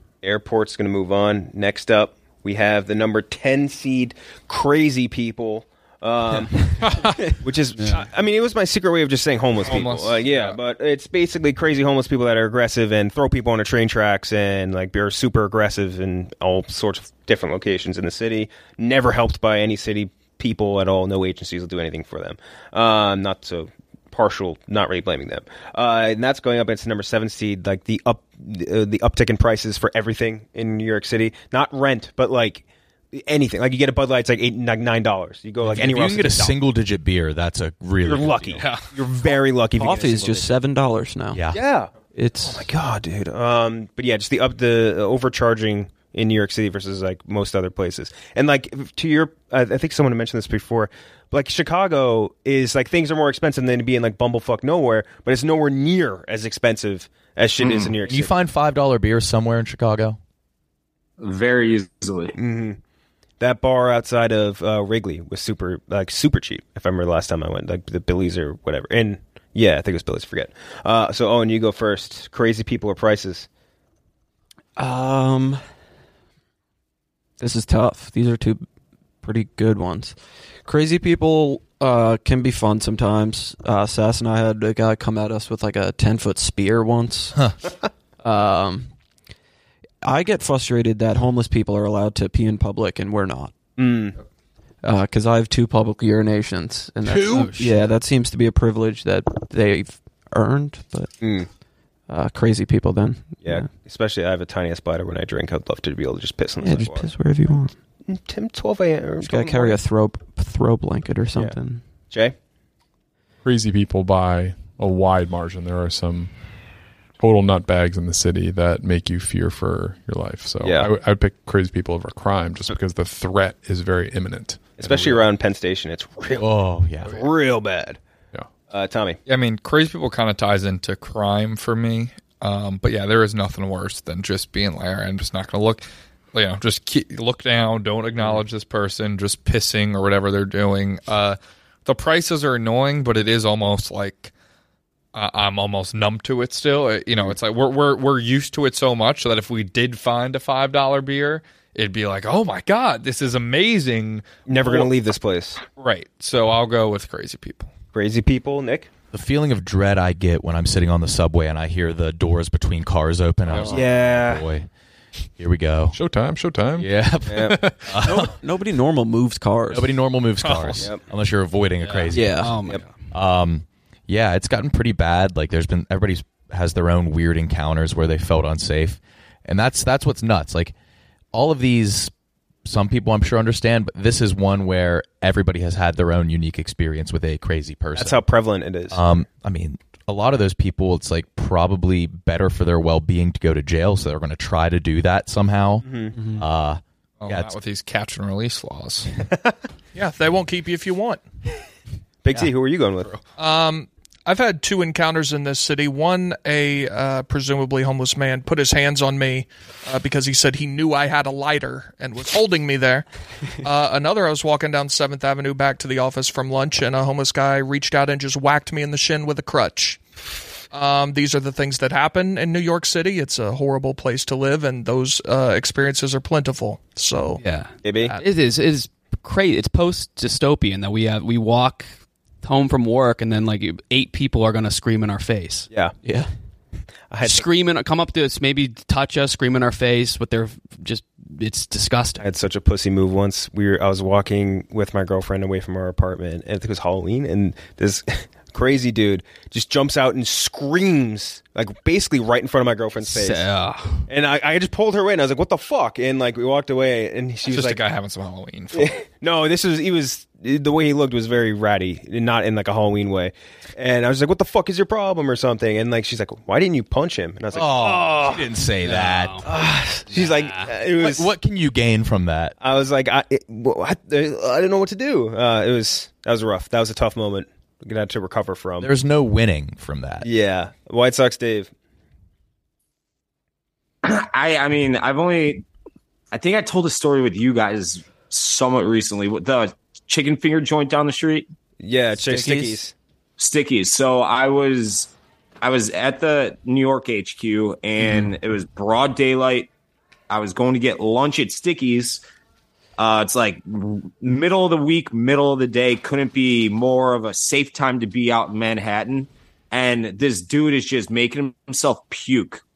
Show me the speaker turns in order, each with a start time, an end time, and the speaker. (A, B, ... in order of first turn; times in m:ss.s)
0:00.2-0:36.6 A
0:07.8-0:08.0 B
0:09.6-0:10.6 C
0:35.6-0:38.8 D
0:38.0-0:40.5 A
0:38.6-0:39.0 C
0:39.7-0:41.4 E
0:41.3-0:41.6 D
0:41.5-0:58.4 A
0:42.1-0:42.7 E
0:57.6-0:57.9 F
0:58.0-1:00.2 D
1:01.2-1:02.4 F
1:02.4-1:02.8 A
1:03.4-1:13.5 A
1:14.8-1:15.6 E
1:17.4-1:18.6 E
1:19.2-1:27.4 E
1:28.2-1:28.9 E
1:30.0-1:33.5 E
1:33.8-1:34.2 A
1:34.8-1:41.1 E
1:37.0-1:37.9 B
1:41.2-1:41.5 A
1:42.1-1:43.7 E
1:43.4-1:47.1 A
1:46.6-1:47.7 E
1:48.1-1:49.8 A
1:49.2-1:51.8 E
1:52.1-1:52.3 A
1:53.4-1:56.3 G
1:57.2-2:04.9 G
2:00.6-2:00.9 A
2:04.8-2:08.0 A
2:06.3-2:07.2 D
2:08.7-2:09.2 A
2:09.2-2:24.3 C
2:25.1-2:34.9 C
2:34.5-2:35.6 A
2:35.8-2:37.7 C
2:37.9-2:38.9 A
2:39.1-2:44.7 D
2:43.6-2:44.5 A
2:45.4-2:46.0 D
2:45.9-2:47.0 G
2:46.8-2:48.4 D
2:47.3-2:47.6 A
2:48.0-2:50.0 E
2:49.7-3:00.7 D
2:50.5-2:50.8 B
2:51.8-2:53.0 B
2:52.1-2:52.6 E
3:01.3-3:02.1 D
3:02.6-3:08.2 D
3:07.9-3:09.0 A
3:08.9-3:17.5 D
3:15.8-3:16.2 A
3:17.2-3:19.1 C
3:19.9-3:21.2 H
3:22.2-3:23.1 A
3:23.4-3:33.1 H
3:33.6-3:40.0 H
3:40.7-3:47.4 H
3:47.4-3:51.9 B
3:47.8-3:48.2 A
3:52.4-3:55.7 B
3:57.1-3:57.4 A
3:57.2-4:02.2 B
4:02.2-4:13.4 A
4:13.0-4:14.1 B
4:14.1-4:17.8 A
4:17.4-4:18.9 C
4:18.7-4:28.5 A
4:27.5-4:29.4 D
4:28.8-4:29.5 B
4:29.4-4:31.3 A
4:30.1-4:30.7 B
4:30.9-4:32.5 D
4:32.6-4:38.9 A
4:38.8-4:40.3 D
4:40.2-4:41.7 A
4:44.0-4:45.6 F
4:46.3-4:51.5 F
4:51.8-4:52.9 A
4:52.1-4:52.8 E
4:53.4-4:59.7 F
5:00.3-5:02.2 F
5:03.0-5:12.6 F